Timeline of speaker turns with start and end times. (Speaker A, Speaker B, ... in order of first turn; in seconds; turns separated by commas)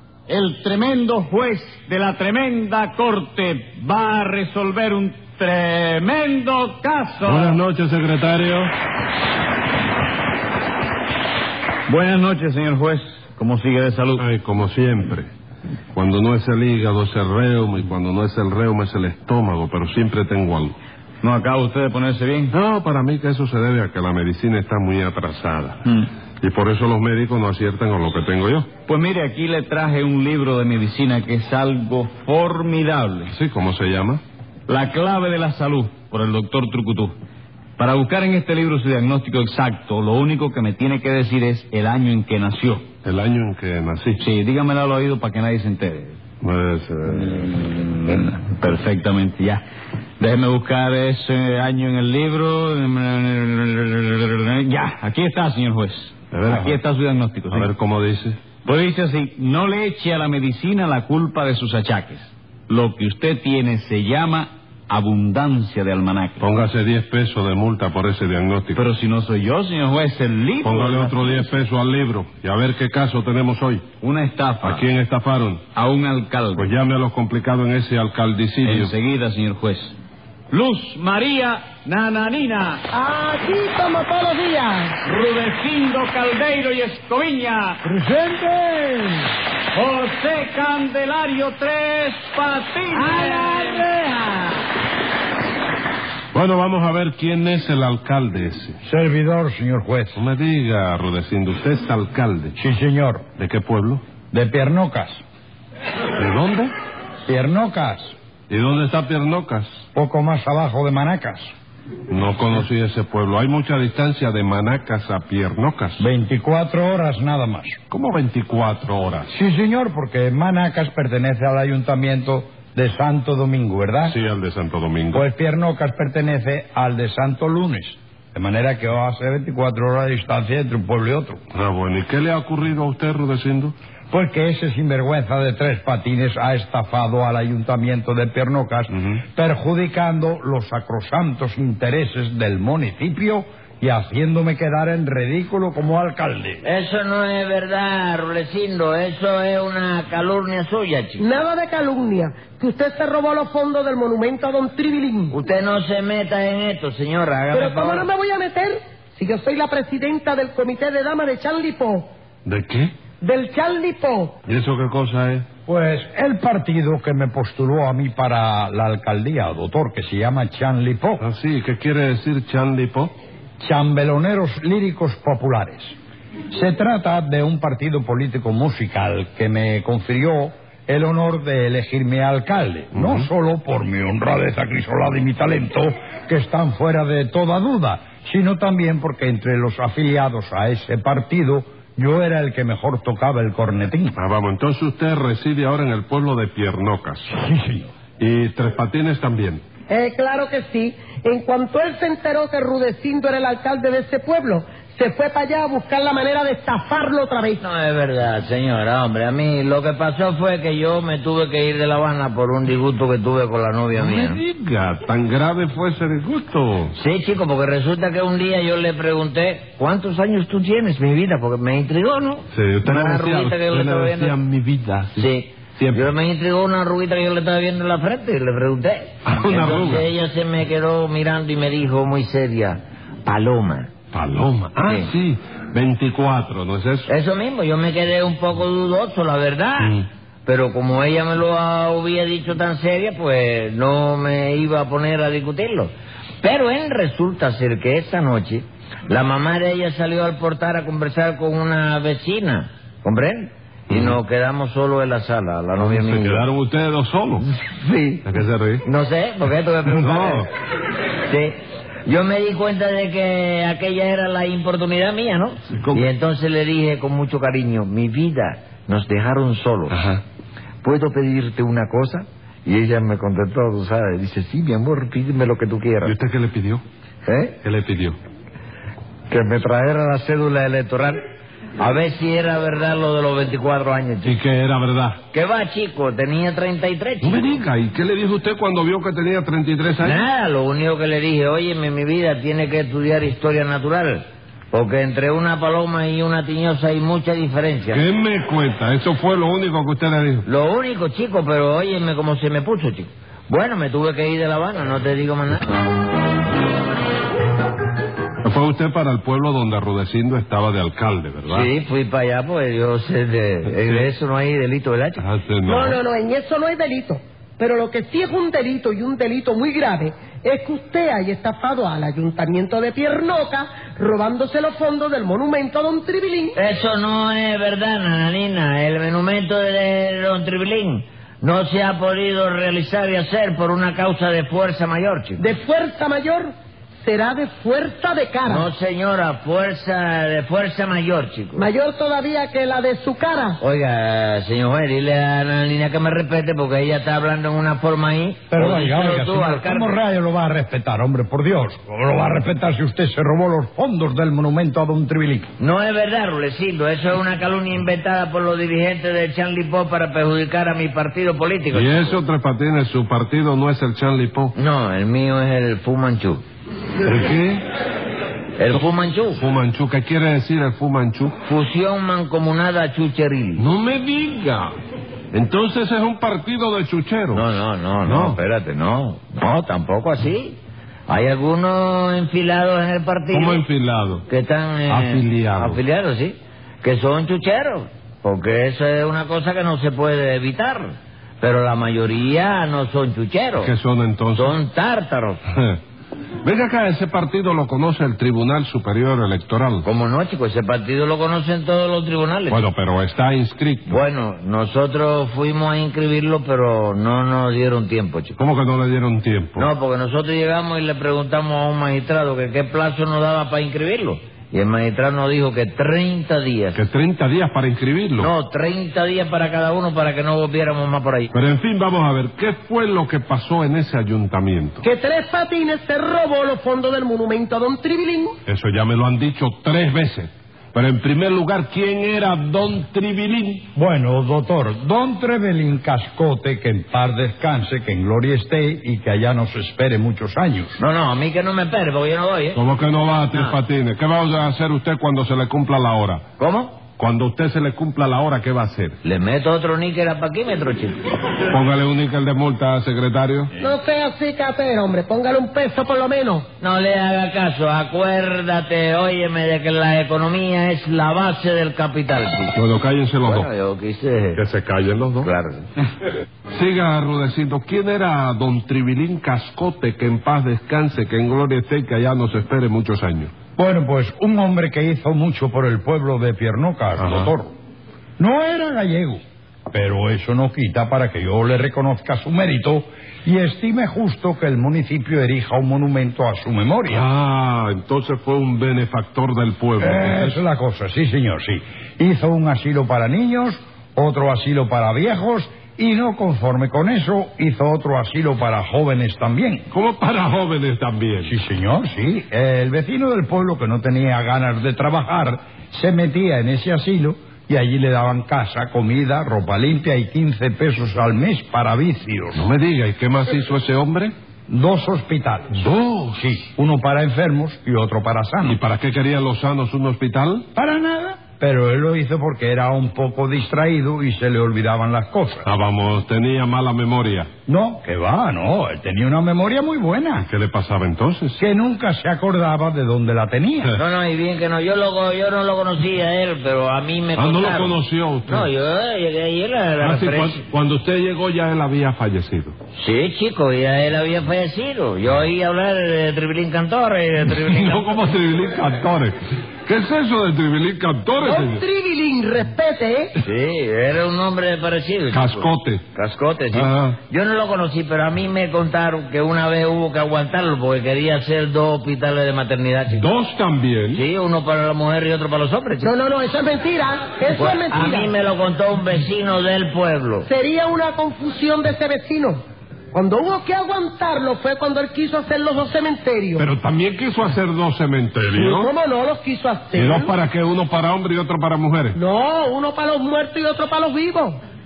Speaker A: 0.3-7.6, Speaker B: 7.2-8.7, Speaker A: 11.9-14.2, Speaker B: 14.2-15.3, Speaker B: 15.9-20.8, Speaker A: 21.2-22.5, Speaker B: 22.5-25.9, Speaker B: 26.4-28.7, Speaker A: 28.9-33.3, Speaker B: 33.3-34.2, Speaker A: 34.7-37.1, Speaker A: 37.8-42.9, Speaker B: 43.0-44.2, Speaker A: 44.2-46.1, Speaker B: 46.4-47.5, Speaker A: 47.1-49.6, Speaker A: 50.2-57.7, Speaker B: 56.3-56.8, Speaker B: 57.5-58.4, Speaker A: 58.6-66.4, Speaker B: 66.4-68.8, Speaker A: 68.7-71.5, Speaker B: 70.6-73.9, Speaker A: 74.0-74.9, Speaker B: 74.6-75.7, Speaker A: 75.7-76.7, Speaker B: 76.5-78.9, Speaker A: 78.6-79.9, Speaker A: 80.5-82.8, Speaker C: 82.9-84.8, Speaker A: 85.0-89.1, Speaker A: 89.7-94.2, Speaker B: 96.3-98.7, Speaker D: 98.8-100.2, Speaker B: 100.1-102.5, Speaker D: 102.6-103.2, Speaker B: 103.4-104.0, Speaker D: 104.3-105.2, Speaker B: 106.2-106.7, Speaker D: 107.3-108.2, Speaker B: 108.5-109.8, Speaker D: 109.9-111.5, Speaker B: 112.1-116.0, Speaker D: 116.0-117.8, Speaker B: 117.9-119.3, Speaker D: 119.3-124.2, Speaker B: 124.1-125.2, Speaker D: 125.1-131.4, Speaker B: 131.5-133.7, Speaker D: 134.1-146.6, Speaker E: 146.6-151.2, Speaker C: 151.2-155.3, Speaker E: 155.3-158.1, Speaker C: 157.5-162.1, Speaker B: 162.4-162.9, Speaker C: 163.2-164.3, Speaker B: 164.4-165.4, Speaker D: 165.7-171.2, Speaker B: 171.2-173.1, Speaker D: 173.6-175.9, Speaker D: 176.5-194.1, Speaker B: 182.9-183.3, Speaker B: 194.1-197.3, Speaker D: 197.3-197.9, Speaker B: 198.2-199.6, Speaker C: 199.9-207.6, Speaker E: 207.6-214.4, Speaker B: 213.9-216.9, Speaker E: 216.9-224.3, Speaker B: 222.5-226.1, Speaker E: 225.2-233.9, Speaker B: 229.2-230.1, Speaker B: 234.1-237.1, Speaker E: 234.8-235.1, Speaker E: 237.1-256.4, Speaker B: 239.8-240.1, Speaker B: 255.8-257.5, Speaker E: 257.4-258.2, Speaker B: 258.2-258.8, Speaker E: 258.8-260.5, Speaker B: 259.9-260.5, Speaker E: 261.3-269.9, Speaker B: 265.7-266.1, Speaker B: 269.9-270.2, Speaker E: 270.8-276.1, Speaker B: 276.0-276.8, Speaker E: 277.2-277.6, Speaker B: 277.6-278.2, Speaker E: 279.3-281.2, Speaker E: 281.8-284.4, Speaker B: 284.2-285.2, Speaker E: 285.3-287.5, Speaker B: 287.2-290.2, Speaker E: 290.0-298.0, Speaker B: 297.9-300.4, Speaker E: 300.4-305.7, Speaker B: 308.4-311.7, Speaker E: 311.5-315.2, Speaker B: 315.2-316.0, Speaker C: 315.6-326.5, Speaker E: 326.6-335.4, Speaker C: 335.4-336.5, Speaker C: 337.0-338.7, Speaker E: 338.5-341.7, Speaker C: 341.6-343.6, Speaker E: 343.6-350.0, Speaker D: 348.5-355.5, Speaker E: 355.6-362.2, Speaker B: 361.7-364.5, Speaker E: 364.5-366.4, Speaker B: 367.0-367.6, Speaker E: 368.6-369.4, Speaker B: 368.7-371.4, Speaker E: 371.4-373.6, Speaker B: 373.6-374.7, Speaker B: 375.3-377.5, Speaker E: 377.3-383.6, Speaker B: 378.0-378.4, Speaker B: 383.3-384.2, Speaker E: 384.3-393.7, Speaker B: 384.9-385.8, Speaker B: 393.6-394.6, Speaker E: 394.3-395.4, Speaker B: 395.5-395.8, Speaker B: 396.4-399.8, Speaker E: 399.8-402.6, Speaker B: 402.5-404.0, Speaker E: 403.9-408.4, Speaker B: 408.4-409.7, Speaker E: 409.6-416.8, Speaker B: 416.7-418.3, Speaker E: 418.2-421.3, Speaker B: 421.3-424.8, Speaker C: 424.8-428.3, Speaker B: 428.4-433.6, Speaker D: 433.7-440.8, Speaker E: 440.8-442.6, Speaker B: 442.5-446.2, Speaker E: 443.3-443.6, Speaker E: 446.4-446.8, Speaker B: 447.0-449.0, Speaker E: 449.0-451.0, Speaker B: 451.5-453.5, Speaker C: 453.6-456.4, Speaker E: 456.6-462.5, Speaker B: 462.5-463.5, Speaker E: 463.2-464.4, Speaker B: 464.3-465.3, Speaker E: 465.2-465.7, Speaker B: 466.5-473.3, Speaker D: 473.6-477.5, Speaker B: 477.0-477.3, Speaker D: 478.2-487.1, Speaker B: 486.9-490.4, Speaker D: 489.8-499.6, Speaker B: 499.7-501.3, Speaker D: 501.2-512.4, Speaker B: 512.3-514.1, Speaker D: 514.5-518.6, Speaker B: 518.4-520.4, Speaker D: 520.5-525.4, Speaker B: 525.4-527.3, Speaker D: 527.5-530.3, Speaker B: 530.2-531.4, Speaker D: 531.4-533.7, Speaker E: 533.8-537.7, Speaker B: 537.1-538.5, Speaker E: 538.2-540.4, Speaker B: 539.8-542.5, Speaker E: 542.8-548.0, Speaker B: 547.5-551.6, Speaker C: 551.2-553.1, Speaker E: 553.2-563.1, Speaker B: 555.1-555.8, Speaker B: 556.5-557.0, Speaker B: 563.0-564.0, Speaker E: 563.9-565.9, Speaker C: 565.8-568.1, Speaker E: 567.4-570.3, Speaker C: 570.2-572.4, Speaker C: 572.9-576.4, Speaker B: 576.4-578.7, Speaker C: 578.4-580.0, Speaker B: 579.7-582.0, Speaker C: 582.0-584.4